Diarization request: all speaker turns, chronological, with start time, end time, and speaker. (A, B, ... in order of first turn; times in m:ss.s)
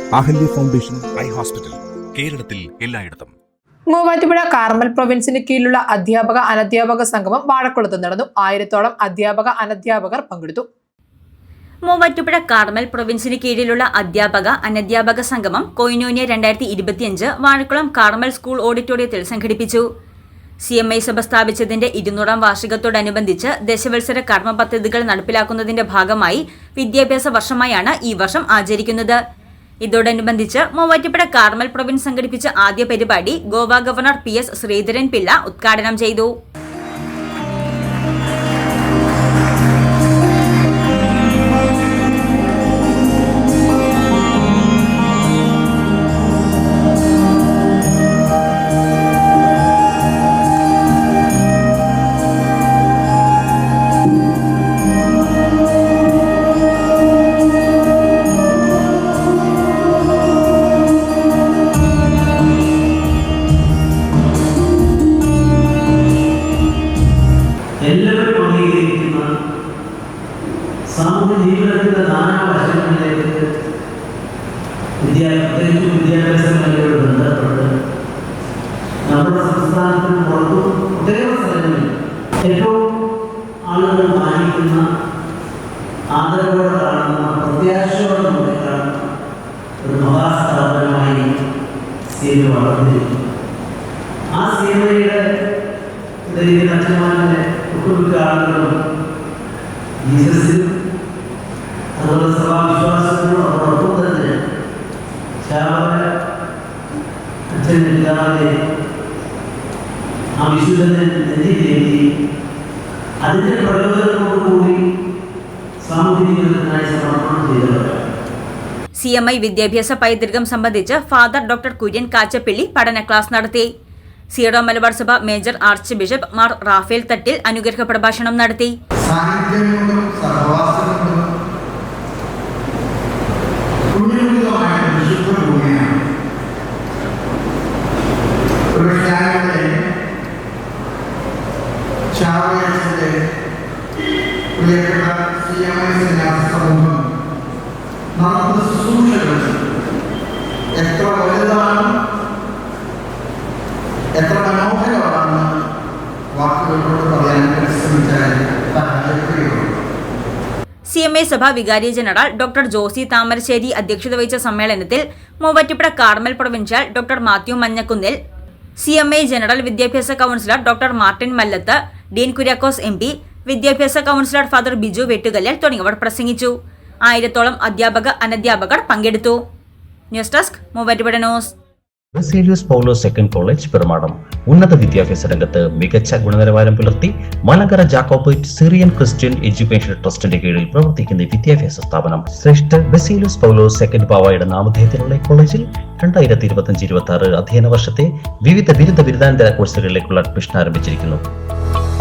0:00.2-0:01.8 A
0:02.3-0:03.3 A
0:03.9-0:10.7 B
0:11.9-0:19.8 C
0:20.7-0:29.2 C
0:29.8-0:36.3 C
1:07.8-1:09.3 D
1:10.9-1:13.4 D
1:15.0-1:17.7 D
1:19.1-1:21.9 D
1:22.4-1:22.8 D
1:23.7-1:24.9 D
1:26.1-1:29.1 D
1:29.8-1:31.3 D
1:32.1-1:33.1 D
1:34.3-1:35.2 D
1:36.3-1:38.7 D
1:40.0-1:40.7 D
1:42.0-1:44.4 D
1:45.4-1:46.0 D
1:47.5-1:48.5 D
1:50.4-1:52.0 D
1:53.2-1:54.8 D
1:55.8-1:58.0 D
1:59.0-2:03.7 C
2:04.3-2:08.7 C
2:09.0-2:11.2 E
2:13.9-2:15.9 E
2:18.7-2:19.8 E
2:22.1-2:23.2 E
2:24.6-2:27.0 E
2:28.2-2:29.6 E
2:30.8-2:31.9 E
2:34.2-2:35.5 E
2:36.3-2:39.6 E
2:40.9-2:48.2 C
2:48.8-2:56.5 C
2:57.1-2:59.4 C
3:00.1-3:01.5 C
3:02.2-3:21.2 F